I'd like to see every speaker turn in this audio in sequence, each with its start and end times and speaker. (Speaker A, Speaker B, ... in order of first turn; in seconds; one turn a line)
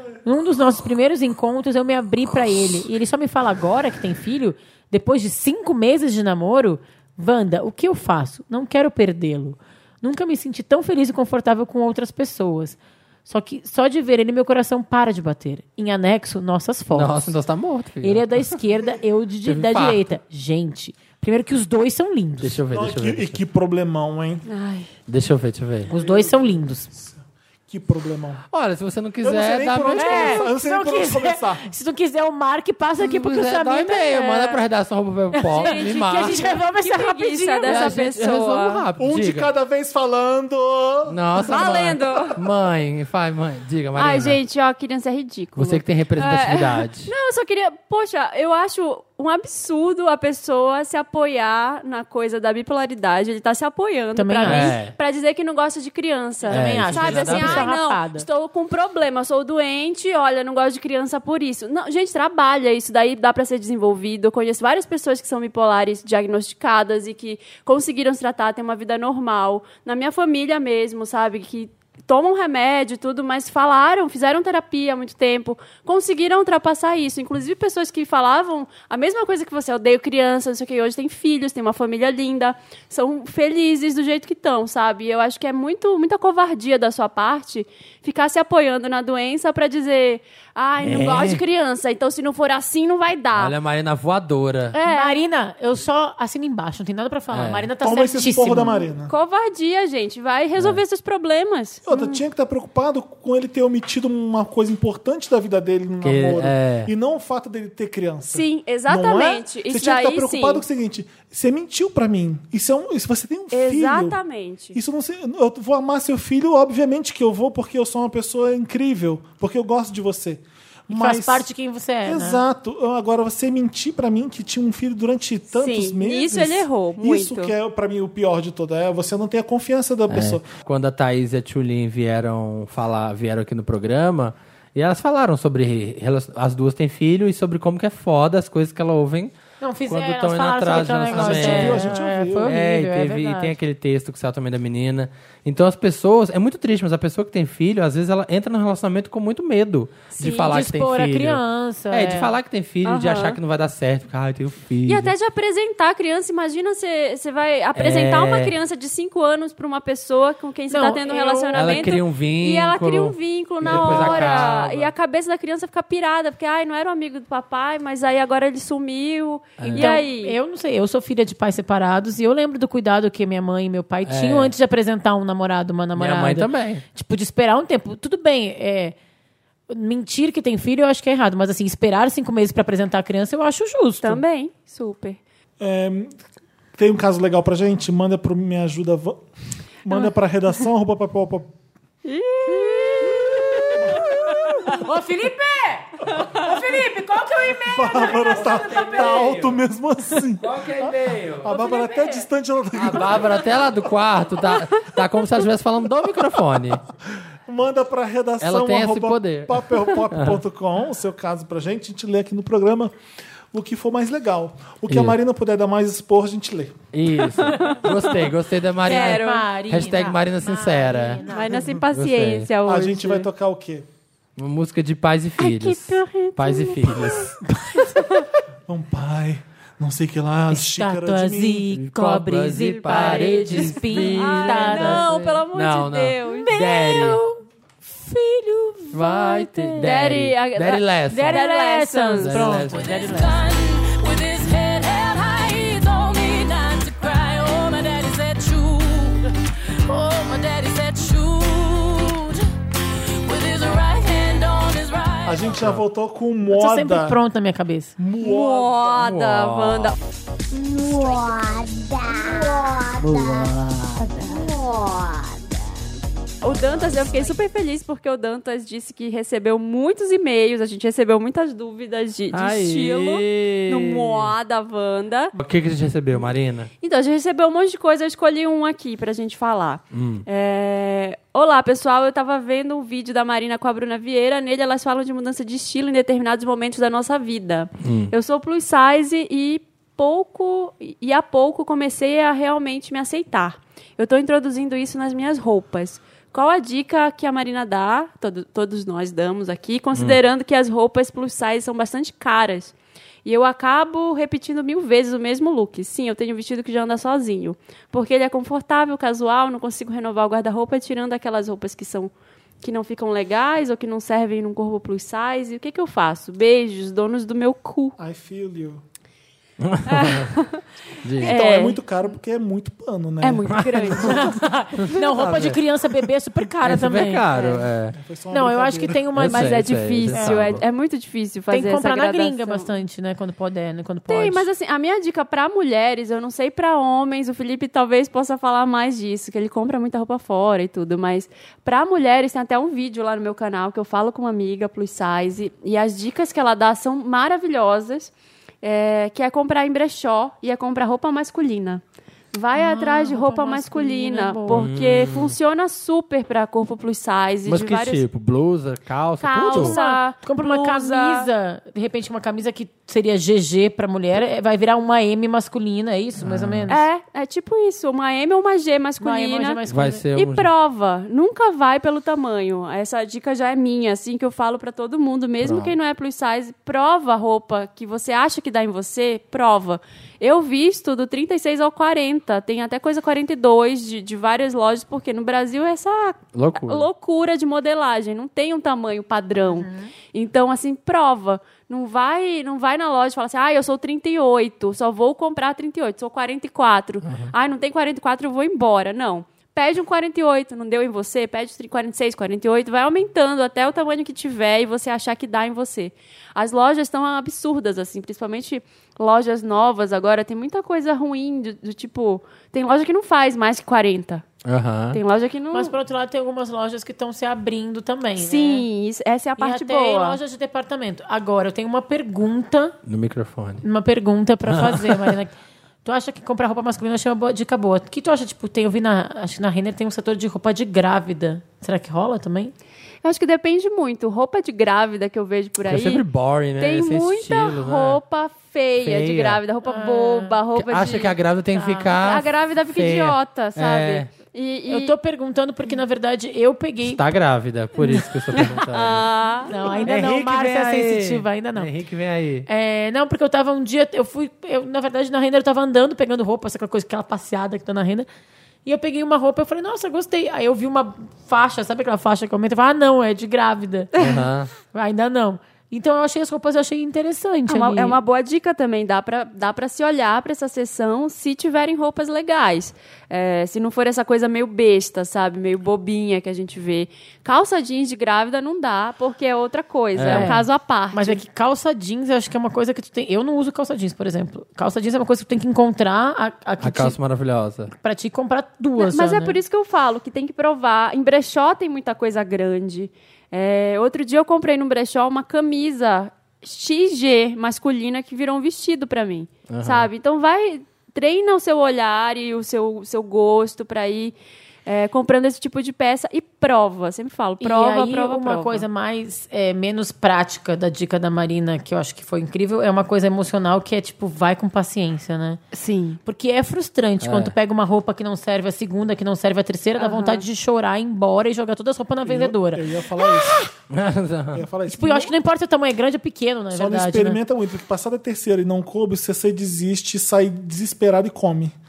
Speaker A: 0.2-17.3
Speaker B: 16.9-18.5
Speaker A: 18.0-22.6
Speaker B: 19.4-20.1
Speaker B: 22.4-23.4
Speaker C: 22.7-24.5
Speaker D: 24.5-24.9
Speaker B: 25.1-25.9
Speaker A: 25.9-26.9
Speaker C: 25.9-28.4
Speaker B: 28.5-30.4
Speaker C: 29.2-31.7
Speaker A: 30.0-34.6
Speaker B: 33.0-36.4
Speaker A: 35.3-38.1
Speaker D: 35.5-38.9
Speaker B: 37.7-39.5
Speaker C: 39.0-42.2
Speaker B: 41.1-44.4
Speaker D: 41.4-42.4
Speaker D: 44.0-93.5
Speaker B: 45.6-47.1
Speaker A: 54.2-54.8
Speaker B: 54.5-55.0
Speaker A: 56.5-58.3
Speaker B: 56.5-57.7
Speaker B: 90.8-91.4
Speaker B: 93.3-94.8
Speaker D: 94.7-95.2
Speaker A: 94.8-98.8
Speaker B: 97.3-97.7
Speaker C: 97.8-99.1
Speaker D: 99.1-102.2
Speaker C: 101.9-114.2
Speaker B: 106.0-106.9
Speaker D: 108.3-110.6
Speaker D: 113.5-114.8
Speaker C: 114.7-121.5
Speaker A: 120.9-122.4
Speaker C: 122.0-130.5
Speaker D: 125.5-127.5
Speaker B: 130.1-139.3
Speaker A: 139.6-143.6
Speaker B: 139.9-141.9
Speaker C: 141.1-142.6
Speaker B: 142.4-155.1
Speaker A: 150.2-152.3
Speaker D: 152.8-153.4
Speaker D: 154.9-170.4
Speaker B: 157.8-158.5
Speaker A: 160.7-161.9
Speaker B: 161.6-164.9
Speaker C: 163.7-164.2
Speaker B: 169.6-170.0
Speaker A: 169.6-179.0
Speaker B: 174.1-174.5
Speaker B: 176.0-176.8
Speaker A: 179.7-184.2
Speaker D: 184.0-185.2
Speaker C: 185.6-186.1
Speaker C: 186.8-189.2
Speaker C: 189.8-191.5
Speaker D: 192.1-194.8
Speaker A: 194.7-199.4
Speaker D: 196.1-196.5
Speaker C: 197.7-203.5
Speaker B: 198.3-199.6
Speaker B: 200.4-201.5
Speaker A: 201.5-202.3
Speaker B: 202.7-206.8
Speaker C: 207.5-212.9
Speaker B: 208.4-210.4
Speaker C: 213.5-216.8
Speaker B: 214.9-215.2
Speaker B: 216.9-221.3
Speaker A: 217.4-218.0
Speaker D: 217.7-217.9
Speaker D: 218.8-219.5
Speaker A: 218.8-221.7
Speaker D: 221.2-223.3
Speaker C: 221.5-221.8
Speaker B: 221.9-222.5
Speaker C: 222.6-223.9
Speaker B: 224.4-227.4
Speaker D: 225.4-228.2
Speaker A: 227.5-228.0
Speaker C: 228.7-231.7
Speaker A: 230.5-235.1
Speaker B: 231.7-237.2
Speaker D: 232.8-236.5
Speaker A: 236.3-240.0
Speaker B: 238.9-241.4
Speaker D: 239.8-242.6
Speaker A: 241.1-243.5
Speaker B: 242.2-242.9
Speaker E: 242.7-249.3
Speaker E: 249.9-255.6
Speaker C: 255.3-257.2
Speaker A: 256.5-258.0
Speaker C: 258.0-259.1
Speaker D: 258.2-260.0
Speaker B: 258.9-260.0
Speaker E: 260.5-262.9
Speaker B: 263.0-264.1
Speaker E: 264.3-265.0
Speaker D: 266.4-275.3
Speaker B: 266.6-267.2
Speaker B: 272.3-274.3
Speaker B: 275.4-276.7
Speaker D: 276.8-302.7
Speaker B: 279.9-280.2
Speaker B: 287.8-288.1
Speaker B: 299.9-300.2
Speaker D: 303.2-318.0
Speaker C: 318.0-318.8
Speaker B: 319.6-320.3
Speaker D: 319.9-320.6
Speaker B: 321.0-321.4
Speaker D: 321.2-321.8
Speaker C: 321.2-324.2
Speaker D: 323.2-324.4
Speaker B: 323.5-324.2
Speaker A: 324.0-327.5
Speaker B: 324.8-325.6
Speaker B: 326.6-328.0
Speaker D: 327.3-327.6
Speaker C: 327.9-329.1
Speaker A: 328.3-330.6
Speaker B: 329.1-330.6
Speaker D: 329.2-332.7
Speaker A: 331.5-334.5
Speaker D: 334.1-358.0
Speaker A: 352.5-354.7
Speaker B: 354.5-355.4
Speaker B: 357.4-359.8
Speaker D: 359.2-361.3
Speaker A: 359.5-366.9
Speaker B: 366.2-366.7
Speaker D: 366.7-369.6
Speaker A: 369.0-370.1
Speaker B: 369.7-370.5
Speaker D: 370.1-414.3
Speaker B: 375.4-375.8
Speaker B: 386.3-386.9
Speaker A: 389.5-389.9
Speaker B: 397.0-397.3
Speaker B: 414.4-415.0
Speaker D: 414.9-415.8
Speaker A: 415.5-418.7
Speaker D: 418.2-420.2
Speaker A: 419.4-422.8
Speaker B: 422.9-423.6
Speaker A: 423.6-425.3
Speaker B: 424.5-425.1
Speaker A: 425.9-432.5
Speaker D: 433.0-436.1
Speaker B: 435.7-438.0
Speaker D: 436.6-441.1
Speaker B: 438.8-439.4
Speaker A: 439.6-440.4
Speaker B: 440.5-444.1
Speaker A: 441.5-441.9
Speaker D: 442.0-444.9
Speaker A: 444.7-447.0
Speaker B: 446.8-449.1
Speaker D: 448.3-449.8
Speaker A: 449.5-451.7
Speaker B: 449.8-452.5
Speaker A: 452.5-458.1
Speaker A: 458.6-463.9
Speaker D: 464.0-464.3
Speaker B: 464.0-464.5
Speaker A: 464.7-468.0
Speaker D: 467.5-481.2
Speaker B: 479.9-480.4
Speaker A: 480.1-487.0
Speaker B: 486.6-487.7
Speaker A: 487.7-489.4
Speaker D: 488.8-504.1
Speaker B: 499.5-499.9
Speaker D: 504.7-508.6
Speaker A: 507.4-515.4
Speaker D: 515.5-516.0
Speaker A: 516.0-523.1
Speaker B: 517.0-517.3
Speaker D: 519.8-520.2
Speaker C: 522.0-523.5
Speaker B: 523.7-524.5
Speaker C: 524.3-525.1
Speaker A: 524.7-527.2
Speaker C: 526.5-531.6